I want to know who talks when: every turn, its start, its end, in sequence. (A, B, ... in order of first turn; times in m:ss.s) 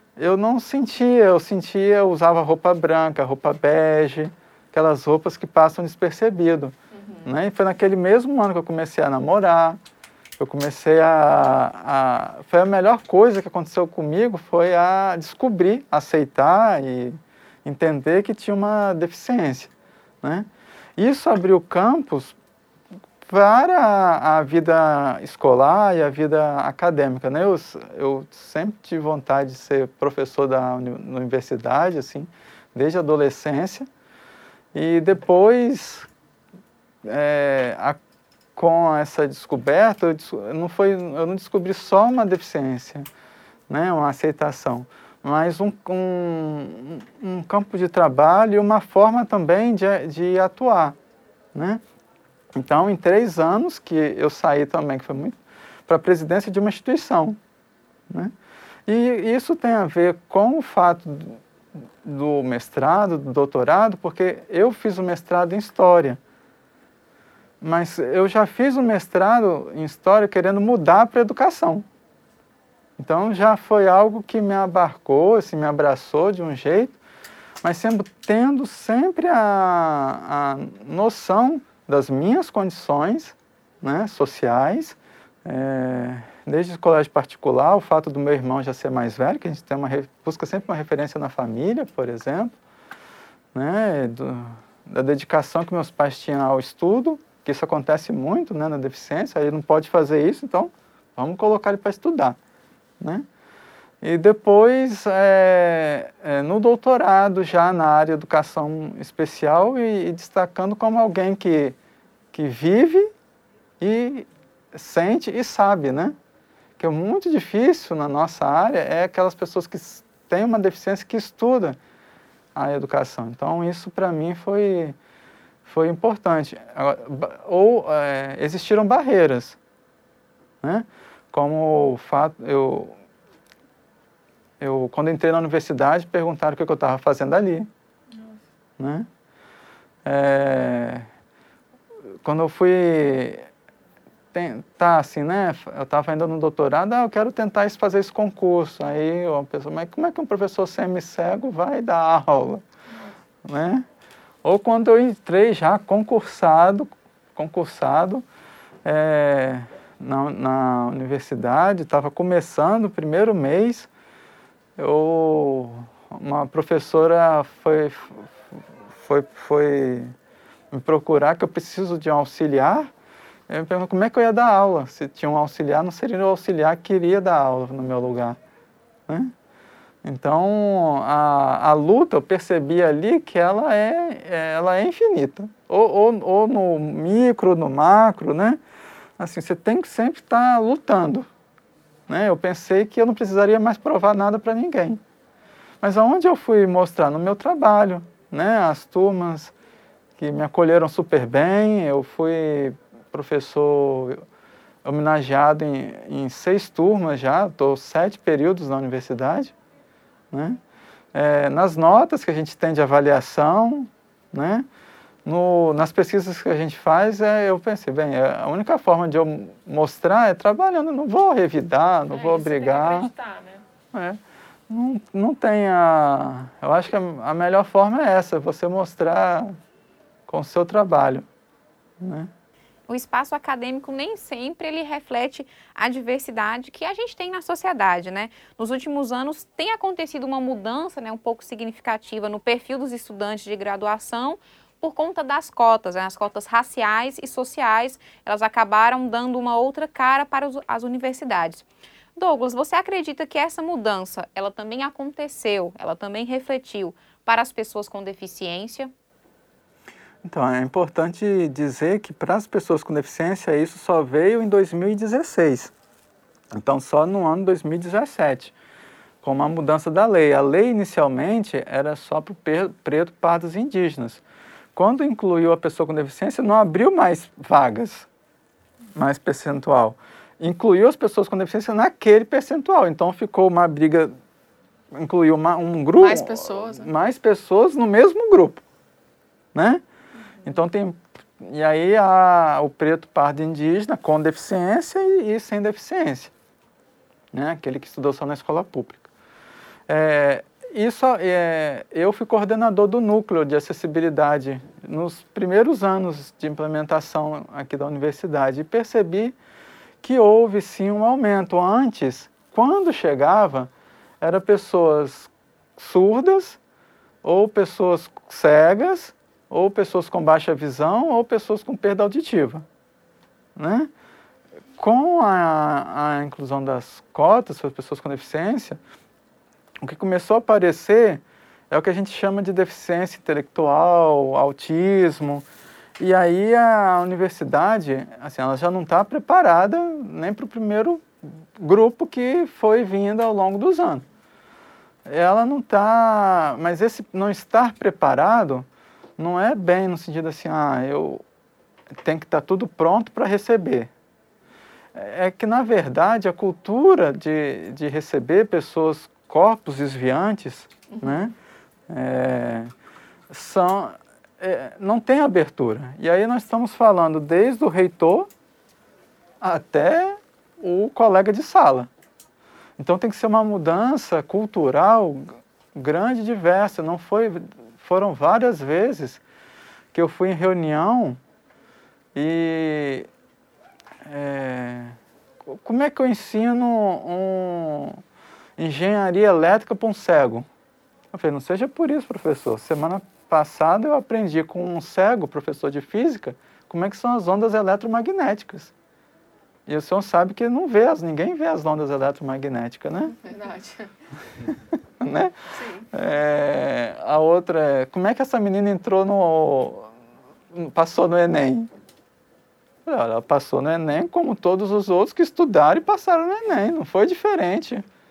0:00.2-0:09.8 A
0:06.9-0:07.3 B
0:10.4-0:19.7 A
0:20.2-0:22.3 A
0:23.3-0:33.9 A
0:34.7-0:36.1 A
0:37.0-0:38.0 A
0:38.6-0:43.1 A
0:43.7-0:51.0 A
0:51.5-0:51.8 A
0:52.5-0:57.4 A
0:58.9-1:01.4 A
1:02.0-1:06.2 A
1:07.6-1:11.8 A
1:13.0-1:17.0 A
1:17.6-1:32.6 A
1:33.5-1:42.4 A
1:43.0-1:43.2 A
1:44.0-1:51.8 A
1:52.3-1:53.1 A
1:53.8-1:56.2 A
1:56.8-2:01.8 A
2:02.5-2:05.0 A
2:05.6-2:09.6 A
2:10.6-2:13.0 A
2:14.6-2:17.7 A
2:18.8-2:19.1 A
2:20.0-2:21.1 A
2:22.2-2:23.4 A
2:24.3-2:32.6 A
2:33.4-2:33.8 A
2:34.4-2:38.2 A
2:38.8-2:43.9 A
2:44.8-2:50.1 A
2:50.7-2:52.9 A
2:53.5-2:58.4 A
2:59.1-2:59.3 A
3:00.0-3:08.6 A
3:09.2-3:11.3 A
3:12.1-3:15.0 A
3:15.8-3:19.5 A
3:20.2-3:24.2 A
3:24.8-3:29.5 A
3:30.3-3:30.6 A
3:31.1-3:34.7 A
3:35.2-3:43.1 A
3:42.1-3:43.6 B
3:43.9-3:49.6 A
3:50.3-3:51.3 A
3:52.0-3:52.3 A
3:52.9-4:18.9 C
4:20.2-4:25.7 A
4:26.5-4:28.5 A
4:29.2-4:34.2 A
4:34.7-4:38.1 A
4:38.9-4:44.1 A
4:44.9-4:48.6 A
4:46.0-4:46.9 B
4:49.5-4:49.8 A
4:50.4-4:56.3 A
4:57.3-4:59.1 A
4:59.9-5:09.4 A
5:10.0-5:16.6 A
5:17.2-5:22.6 A
5:23.6-5:23.9 A
5:24.8-5:28.8 A
5:29.8-5:35.4 A
5:36.0-5:44.0 A
5:45.0-5:48.7 A
5:49.2-5:51.2 A
5:52.0-5:53.9 A
5:54.9-6:01.3 A
6:00.9-6:01.3 B
6:01.9-6:02.7 A
6:03.3-6:08.3 A
6:09.4-6:11.9 A
6:12.8-6:19.2 A
6:19.9-6:21.2 A
6:22.1-6:23.1 A
6:24.0-6:28.0 A
6:28.6-6:30.5 A
6:31.1-6:38.7 A
6:39.6-6:43.2 A
6:43.2-6:43.9 B
6:45.0-6:45.3 A
6:45.5-6:45.9 B
6:45.9-6:49.9 A
6:50.5-6:51.7 A
6:52.8-6:57.8 A